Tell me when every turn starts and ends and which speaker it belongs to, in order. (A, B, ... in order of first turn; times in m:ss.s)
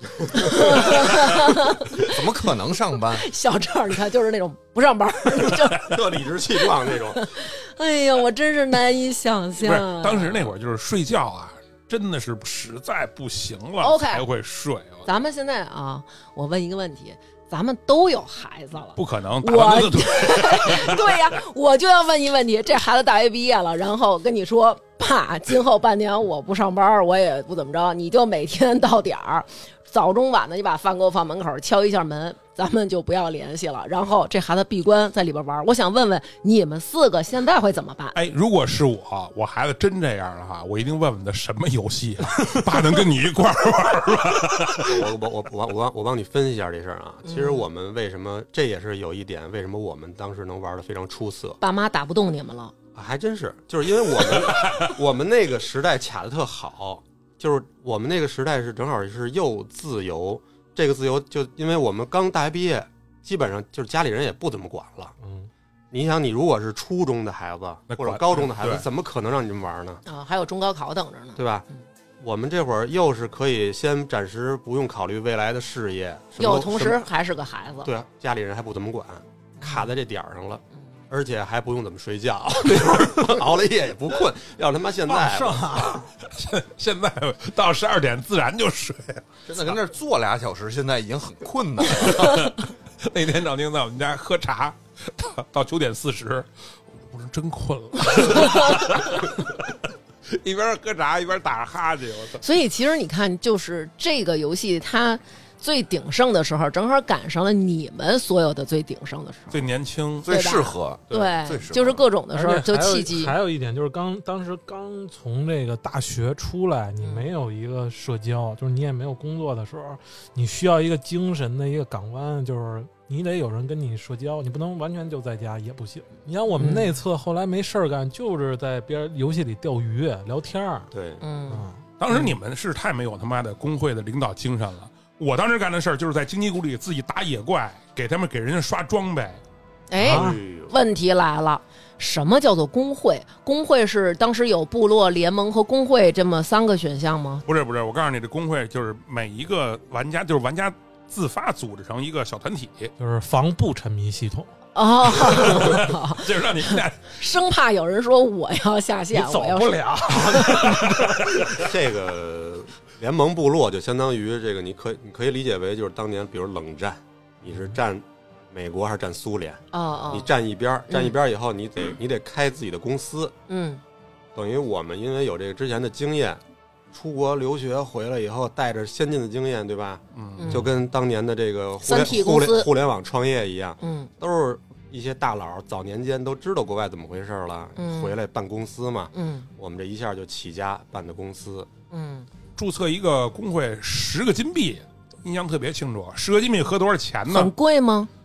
0:00.1-0:00.5 A
0:00.4-0:02.5 B
0:02.0-0:03.3 C
0:03.1-0:06.0 B
0:05.8-0:07.3 A
0:06.7-0:10.4 B
0:09.6-0:15.1 D
0:13.8-0:14.2 B
0:15.1-0:38.2 B
0:19.0-0:21.2 D
0:38.1-0:45.1 D
0:44.8-0:51.6 A
0:47.3-0:47.6 B
0:51.6-0:52.8 B
0:53.0-1:05.2 A
1:05.2-1:05.5 E
1:05.9-1:10.0 A
1:07.9-1:08.9 D
1:10.1-1:11.8 B
1:11.4-1:11.7 A
1:12.2-1:17.0 A
1:16.4-1:17.9 B
1:17.8-1:26.0 A
1:19.6-1:19.9 B
1:25.1-1:26.1 E
1:26.2-1:29.7 D
1:29.5-1:32.5 C
1:32.0-1:42.4 D
1:42.4-1:49.6 B
1:49.5-1:50.3 D
1:50.2-1:52.0 C
1:50.3-1:53.4 B
1:52.3-2:10.9 E
1:57.0-1:57.3 B
2:06.6-2:07.0 B
2:10.9-2:11.2 A
2:11.2-2:11.7 B
2:11.5-2:12.3 E
2:12.0-2:19.4 D
2:19.9-2:27.4 B
2:20.0-2:20.4 E
2:20.0-2:20.8 A
2:27.5-2:32.9 D
2:33.0-2:34.5 E
2:34.8-2:40.9 B
2:35.2-2:37.2 D
2:39.1-2:41.2 E
2:40.6-2:41.6 D
2:41.6-2:53.4 A
2:49.7-2:50.3 B
2:50.9-2:51.2 B
2:53.5-2:53.8 B
2:54.4-2:56.4 A
2:56.9-3:11.7 A
3:00.1-3:00.6 D
3:00.4-3:00.7 B
3:01.8-3:02.7 B
3:03.8-3:04.1 B
3:07.8-3:08.2 B
3:09.1-3:09.5 B
3:11.9-3:12.3 B
3:12.6-3:17.5 D
3:17.3-3:18.1 B